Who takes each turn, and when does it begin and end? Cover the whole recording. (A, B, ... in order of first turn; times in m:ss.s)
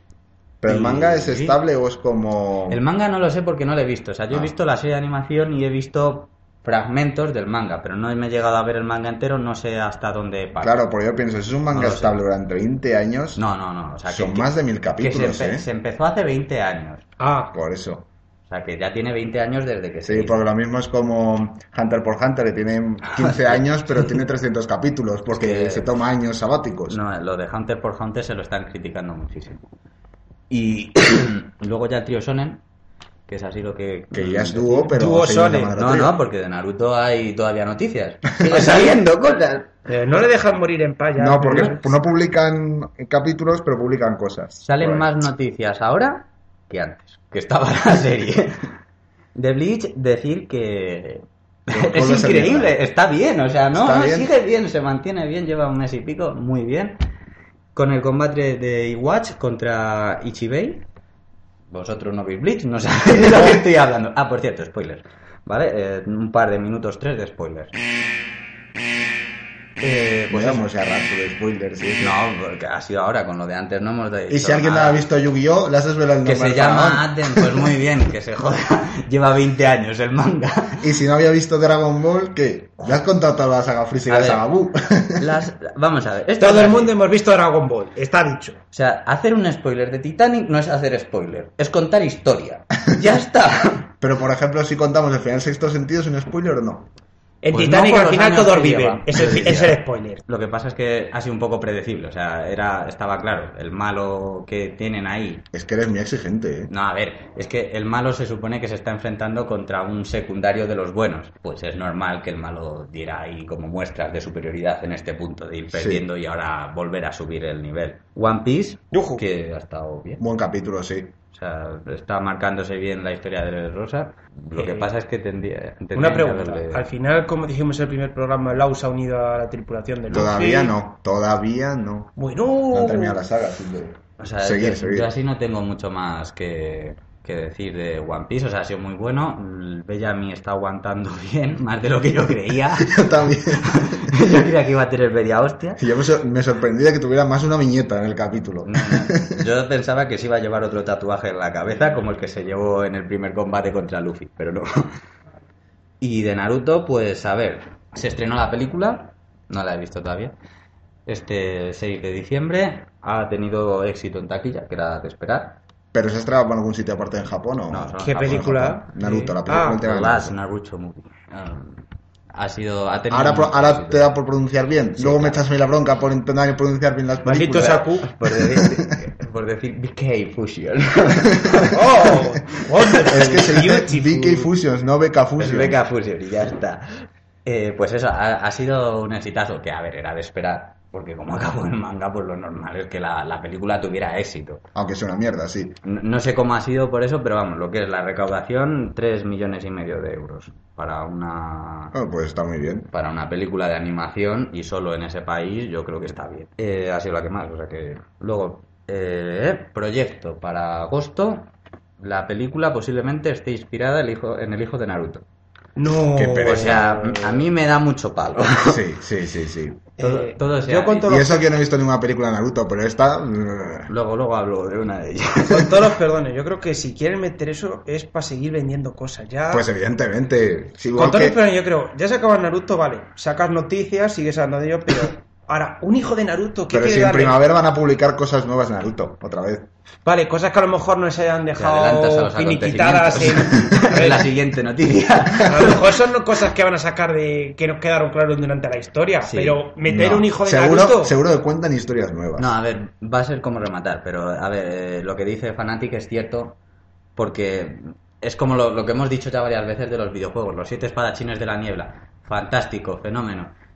0:00.6-0:02.8 A
0:00.6-0:01.6 B
0:02.7-0:10.8 B
0:10.6-0:13.4 A
0:11.7-0:12.2 B
0:13.4-0:17.1 B
0:14.1-0:15.6 A
0:17.2-0:17.5 C
0:17.5-0:18.1 A
0:18.5-0:20.4 B
0:20.0-0:27.0 A
0:23.1-0:23.6 B
0:25.3-0:25.9 B
0:26.9-0:29.6 B
0:30.5-0:32.6 B
0:33.3-0:34.9 B
0:34.1-0:36.1 A
0:34.9-0:36.1 C
0:35.8-0:39.7 B
0:39.9-0:41.9 C
0:41.2-0:45.1 A
0:44.6-0:48.7 B
0:49.4-0:57.0 B
0:51.7-0:52.7 A
0:53.7-0:54.3 A
0:57.8-1:00.8 B
1:01.7-1:07.7 B
1:09.8-1:10.7 B
1:10.3-1:12.2 A
1:12.0-1:15.0 B
1:14.3-1:17.6 A
1:16.2-1:20.9 B
1:20.8-1:25.3 A
1:24.1-1:24.4 B
1:25.2-1:26.9 B
1:26.4-1:28.6 C
1:28.7-1:33.9 B
1:34.0-1:36.9 A
1:37.4-1:40.2 C
1:37.5-1:39.7 B
1:39.1-1:39.8 A
1:40.3-1:45.4 B
1:45.5-1:46.7 A
1:46.7-2:00.2 B
1:55.7-1:56.0 A
1:58.9-1:59.2 C
2:00.2-2:01.1 A
2:01.3-2:06.8 B
2:04.6-2:04.9 C
2:06.0-2:10.8 C
2:10.1-2:12.1 A
2:12.2-2:13.2 C
2:12.7-2:15.1 A
2:14.2-2:25.8 B
2:22.8-2:24.2 A
2:25.8-2:29.3 A
2:28.6-2:34.9 B
2:36.0-2:40.3 B
2:41.1-2:45.6 B
2:45.9-2:50.4 A
2:47.7-2:48.7 B
2:48.0-2:49.8 C
2:49.8-2:54.1 B
2:53.1-2:58.7 A
2:55.0-2:55.5 B
2:57.2-2:58.1 C
2:58.0-3:03.2 B
3:01.7-3:04.5 C
3:03.1-3:05.8 A
3:05.4-3:14.6 B
3:14.8-3:15.8 A
3:15.8-3:22.0 B
3:21.9-3:22.9 A
3:22.9-3:31.5 B
3:32.0-3:35.2 B
3:35.8-3:37.4 C
3:36.1-3:36.8 A
3:36.4-3:38.8 B
3:38.6-3:39.8 A
3:40.0-3:41.5 C
3:40.0-3:41.1 B
3:41.0-3:43.9 A
3:43.9-3:45.7 B
3:45.5-3:49.7 C
3:49.5-3:51.4 A
3:50.9-3:57.4 C
3:56.7-3:59.7 A
4:00.0-4:04.3 C
4:01.6-4:05.9 B
4:05.4-4:11.2 C
4:09.2-4:09.6 B
4:09.8-4:12.6 A
4:12.4-4:16.6 B
4:17.2-4:23.5 B